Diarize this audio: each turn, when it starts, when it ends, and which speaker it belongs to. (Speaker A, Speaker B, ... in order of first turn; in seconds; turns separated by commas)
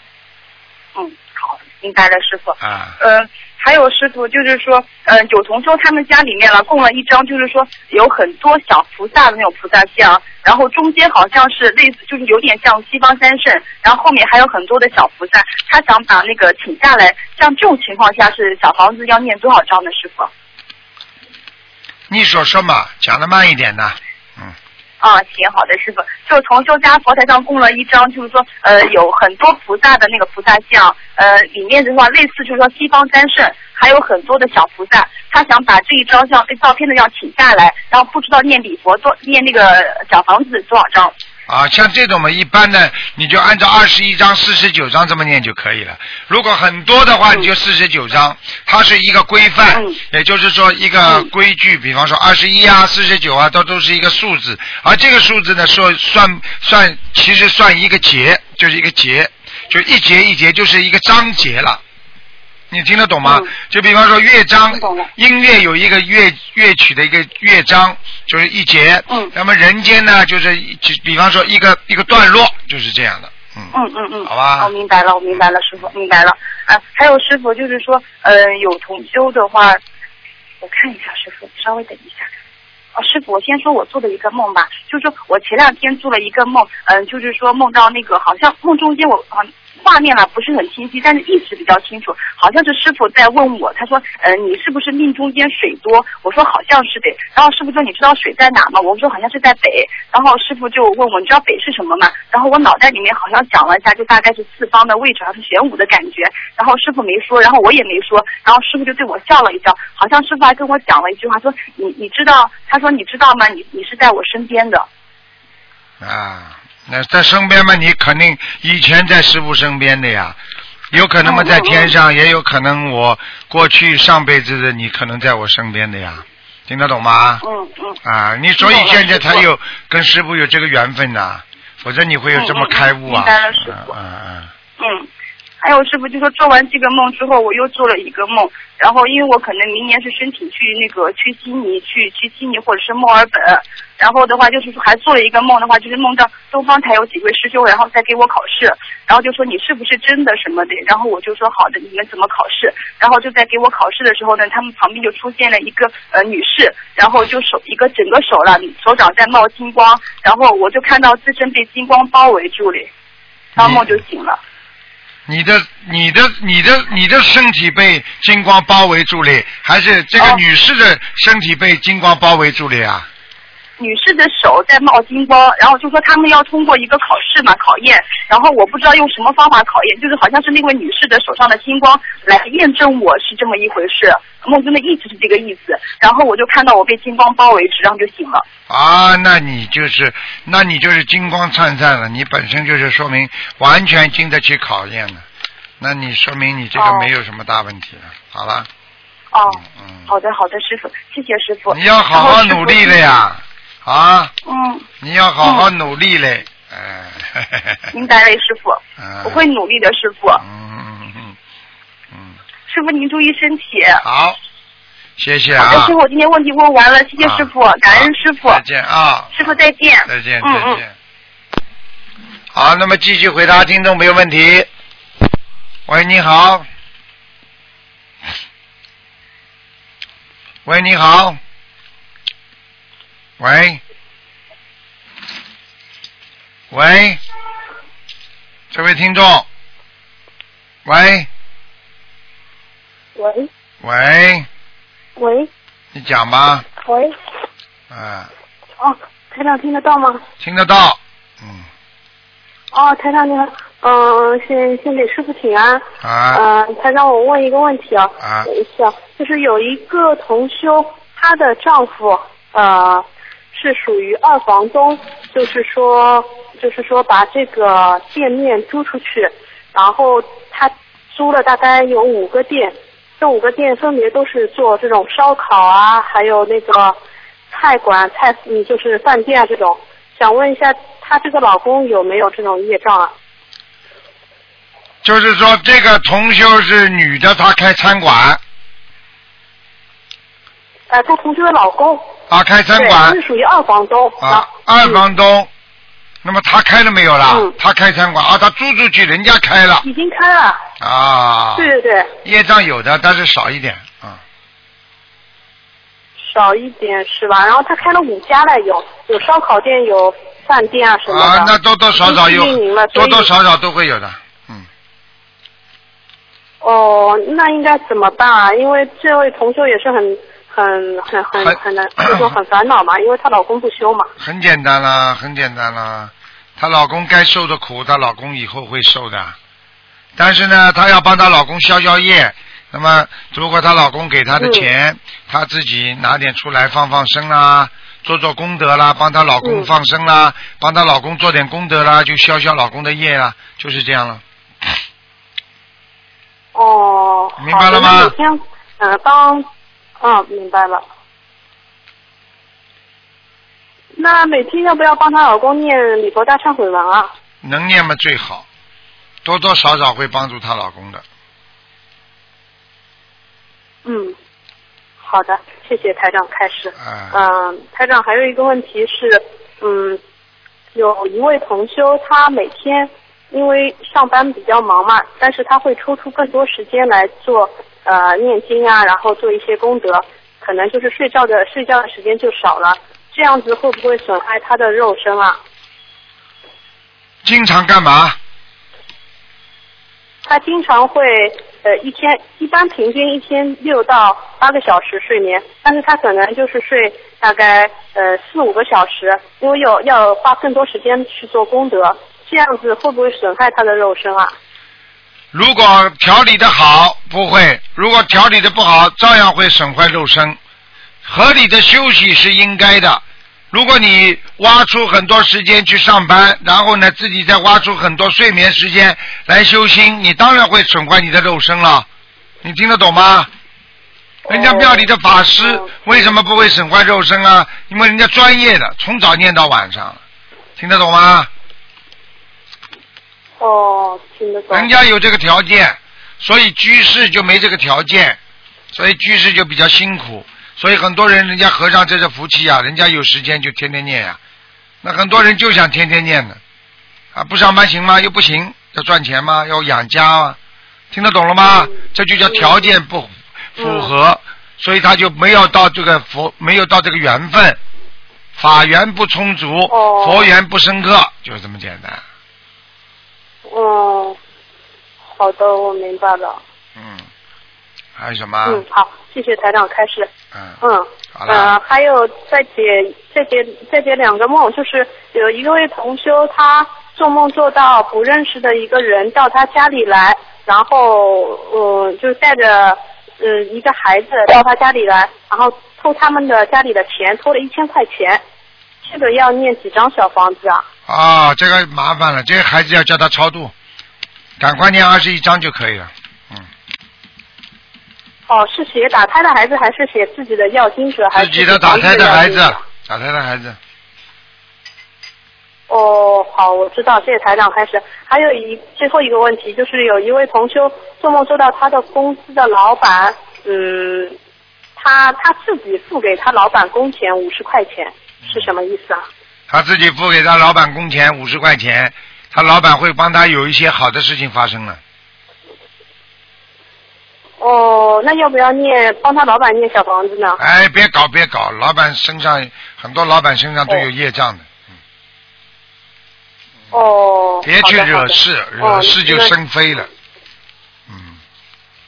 Speaker A: 0.9-20.3, Speaker B: 2.6-3.0, Speaker B: 22.1-24.5, Speaker A: 25.0-41.1, Speaker B: 41.5-61.8, Speaker A: 49.7-50.0, Speaker B: 62.7-73.7, Speaker A: 63.2-63.5, Speaker A: 64.7-65.1, Speaker A: 73.7-79.8, Speaker B: 74.2-74.7, Speaker A: 80.6-82.3, Speaker A: 82.9-114.8, Speaker B: 116.0-120.4, Speaker B: 120.9-127.4, Speaker A: 121.2-121.9, Speaker A: 127.4-128.0, Speaker B: 128.0-134.5, Speaker A: 128.6-129.4, Speaker A: 132.3-133.9, Speaker A: 134.8-135.1, Speaker A: 135.6-162.9, Speaker A: 163.6-164.4, Speaker B: 163.6-164.0, Speaker B: 165.3-173.1, Speaker A: 173.8-188.4, Speaker B: 188.7-195.2, Speaker B: 195.8-198.7, Speaker A: 196.8-197.1, Speaker A: 199.3-203.0, Speaker B: 199.5-200.1, Speaker B: 201.7-204.3, Speaker A: 204.4-204.8, Speaker B: 205.0-207.9, Speaker A: 205.4-205.7, Speaker A: 207.9-210.4, Speaker B: 209.0-209.4, Speaker B: 210.4-211.4, Speaker B: 212.1-212.4, Speaker A: 212.7-214.0, Speaker B: 214.0-214.4, Speaker B: 215.2-215.9, Speaker A: 215.6-218.6, Speaker B: 217.2-220.9, Speaker A: 219.3-220.8, Speaker B: 222.5-224.7, Speaker B: 225.9-226.6, Speaker B: 230.6-231.4, Speaker B: 233.4-233.8, Speaker B: 236.7-237.2, Speaker B: 238.7-239.5, Speaker B: 240.8-241.3, Speaker C: 243.2-243.5, Speaker B: 243.8-244.5, Speaker C: 245.2-245.5, Speaker B: 245.9-246.7, Speaker C: 246.8-247.1, Speaker B: 247.9-248.3, Speaker C: 248.8-250.2, Speaker B: 250.4-251.7, Speaker C: 252.7-277.0, Speaker B: 256.0-256.4, Speaker B: 258.2-258.5, Speaker C: 277.5-283.1, Speaker B: 285.0-288.4, Speaker C: 290.9-292.1, Speaker B: 292.3-293.2, Speaker C: 292.8-295.0, Speaker B: 294.2-295.5, Speaker B: 296.2-299.9, Speaker C: 299.8-300.6, Speaker B: 300.8-301.7, Speaker C: 301.6-302.1, Speaker B: 302.2-304.2, Speaker C: 306.2-313.3, Speaker B: 311.1-314.7, Speaker C: 316.6-324.1, Speaker B: 321.4-322.4, Speaker B: 324.2-329.4, Speaker B: 330.1-344.2, Speaker C: 334.4-334.7, Speaker C: 339.4-339.7, Speaker C: 346.5-349.5, Speaker B: 347.4-348.1, Speaker C: 350.0-350.8, Speaker C: 354.0-357.1, Speaker B: 357.4-358.4, Speaker B: 359.2-361.0, Speaker C: 363.8-364.1, Speaker C: 365.0-370.0, Speaker B: 366.8-367.2, Speaker C: 370.7-385.4, Speaker B: 387.2-388.2, Speaker C: 390.2-404.3, Speaker B: 405.3-410.4, Speaker B: 411.0-421.9, Speaker B: 422.4-423.3, Speaker C: 424.2-424.9, Speaker B: 424.3-430.0, Speaker C: 425.4-426.1, Speaker B: 430.6-431.3, Speaker C: 433.4-434.7, Speaker B: 434.5-438.2, Speaker B: 438.7-444.2, Speaker B: 444.8-446.4, Speaker B: 447.1-450.4, Speaker B: 450.9-457.6, Speaker C: 452.3-452.6, Speaker C: 453.6-453.9, Speaker B: 458.4-462.0, Speaker C: 459.7-460.3, Speaker C: 463.5-464.2, Speaker C: 465.1-466.4, Speaker B: 466.8-467.1, Speaker B: 468.0-468.6, Speaker C: 468.4-470.1, Speaker B: 470.3-470.6, Speaker C: 470.6-488.2, Speaker B: 471.1-471.5, Speaker C: 488.9-490.6, Speaker B: 490.9-493.5, Speaker B: 494.4-496.5, Speaker C: 498.3-502.6, Speaker B: 501.1-503.6, Speaker C: 505.7-514.1, Speaker C: 514.8-519.0, Speaker B: 518.2-518.5, Speaker B: 519.5-524.8, Speaker C: 527.4-530.4, Speaker B: 530.4-534.5, Speaker C: 536.7-539.3, Speaker B: 537.4-539.9, Speaker B: 540.9-541.2